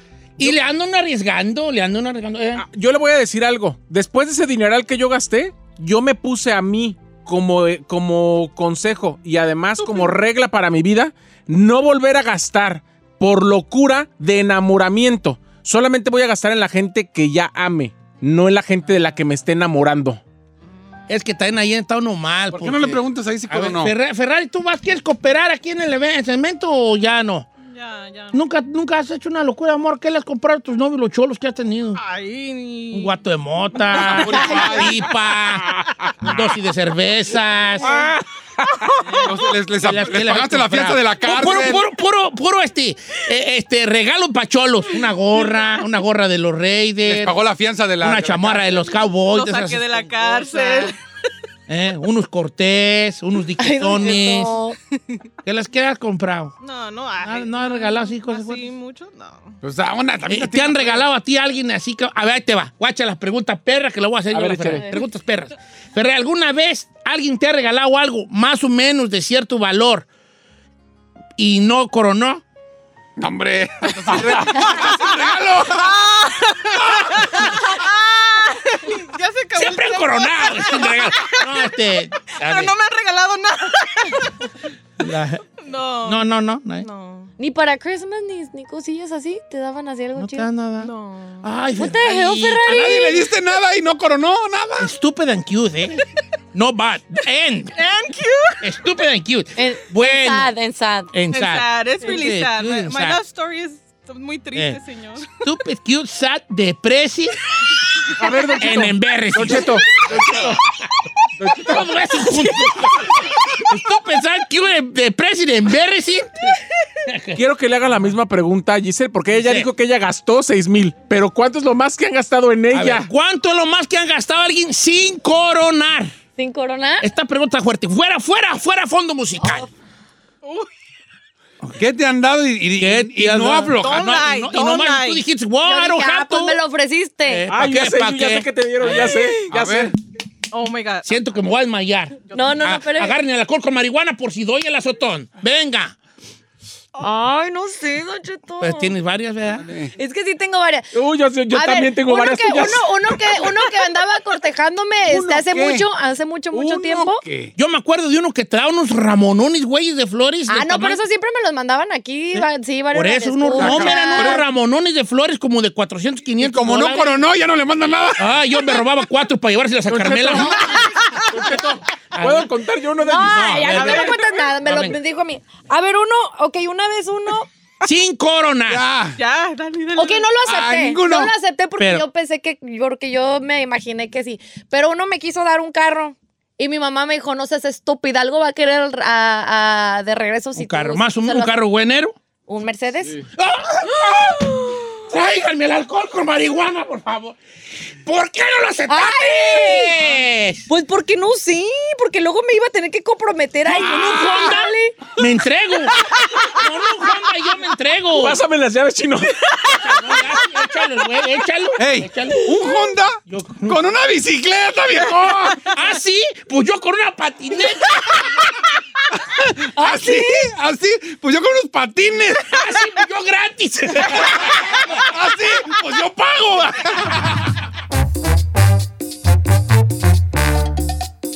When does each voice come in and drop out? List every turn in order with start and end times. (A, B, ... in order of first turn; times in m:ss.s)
0:00.4-0:02.6 A
0:02.5-0:20.2 B
0:21.1-0:27.5 A
0:22.5-0:23.9 C
0:27.6-0:28.4 D
0:28.3-0:32.0 A
0:32.0-0:33.2 D
0:32.9-0:38.0 A
0:33.8-0:34.8 D
0:33.9-0:34.9 C
0:38.9-0:39.5 D
0:39.2-0:41.8 C
0:39.8-0:47.4 A
0:45.3-0:45.8 D
0:47.0-0:48.9 C
0:48.0-0:50.4 A
0:49.2-0:51.0 D
0:51.7-0:54.6 A
0:53.6-0:54.8 E
0:55.4-0:56.5 A
0:56.6-0:59.6 D
0:57.2-0:58.7 A
0:59.6-1:01.1 C
1:00.2-1:10.1 A
1:04.3-1:04.9 B
1:11.4-1:12.4 A
1:13.2-1:16.1 C
1:14.0-1:21.8 D
1:16.8-1:17.4 C
1:19.5-1:22.7 A
1:22.3-1:24.5 D
1:25.0-1:25.4 A
1:25.6-1:27.3 D
1:26.0-1:26.9 A
1:27.4-1:30.5 E
1:30.2-1:33.0 A
1:30.8-1:31.5 D
1:31.8-1:33.3 E
1:32.6-1:34.9 C
1:34.8-1:37.8 A
1:37.7-1:39.0 D
1:38.6-1:40.5 A
1:39.6-1:41.1 E
1:41.1-1:43.2 A
1:41.2-1:45.5 D
1:44.5-1:44.8 A
1:45.4-1:47.4 A
1:48.2-1:50.6 B
1:48.6-1:49.8 A
1:50.2-1:50.5 C
1:51.4-1:51.8 C
1:51.5-1:56.5 A
1:52.3-1:52.7 D
1:57.0-1:57.4 A
1:57.3-2:03.1 B
1:59.3-1:59.7 A
2:02.7-2:06.1 A
2:06.4-2:07.0 E
2:07.0-2:09.7 A
2:10.4-2:10.7 D
2:11.8-2:14.2 C
2:12.8-2:16.6 A
2:13.7-2:15.2 D
2:15.6-2:17.4 E
2:17.2-2:18.9 A
2:17.5-2:19.9 B
2:18.9-2:19.5 D
2:19.5-2:19.9 C
2:20.5-2:21.1 D
2:21.0-2:26.0 A
2:22.3-2:23.2 E
2:27.0-2:28.9 E
2:28.6-2:29.6 A
2:29.6-2:29.9 C
2:29.9-2:30.9 E
2:30.9-2:33.5 B
2:31.5-2:37.2 E
2:35.1-2:35.8 C
2:36.5-2:37.5 C
2:37.6-2:41.0 A
2:40.5-2:44.4 E
2:42.4-2:47.2 A
2:43.5-2:44.4 C
2:46.4-2:48.4 C
2:48.2-2:50.7 A
2:49.9-2:54.5 B
2:51.0-2:51.3 D
2:52.1-2:52.5 A
2:53.0-2:57.5 E
2:53.2-2:55.0 A
2:57.8-2:58.8 A
2:58.7-2:59.2 C
2:59.2-3:00.4 D
3:00.0-3:11.6 E
3:00.4-3:01.3 C
3:01.8-3:02.0 A
3:10.6-3:12.2 A
3:12.5-3:13.2 E
3:13.4-3:17.4 A
3:18.0-3:20.7 A
3:18.9-3:20.1 E
3:20.7-3:25.0 E
3:23.6-3:26.0 A
3:26.5-3:28.4 A
3:28.1-3:29.3 B
3:29.7-3:32.5 A
3:31.8-3:35.6 C
3:33.3-3:33.8 A
3:35.4-3:38.5 A
3:39.2-3:42.6 C
3:39.9-3:40.2 E
3:42.5-3:45.0 A
3:44.1-3:47.5 C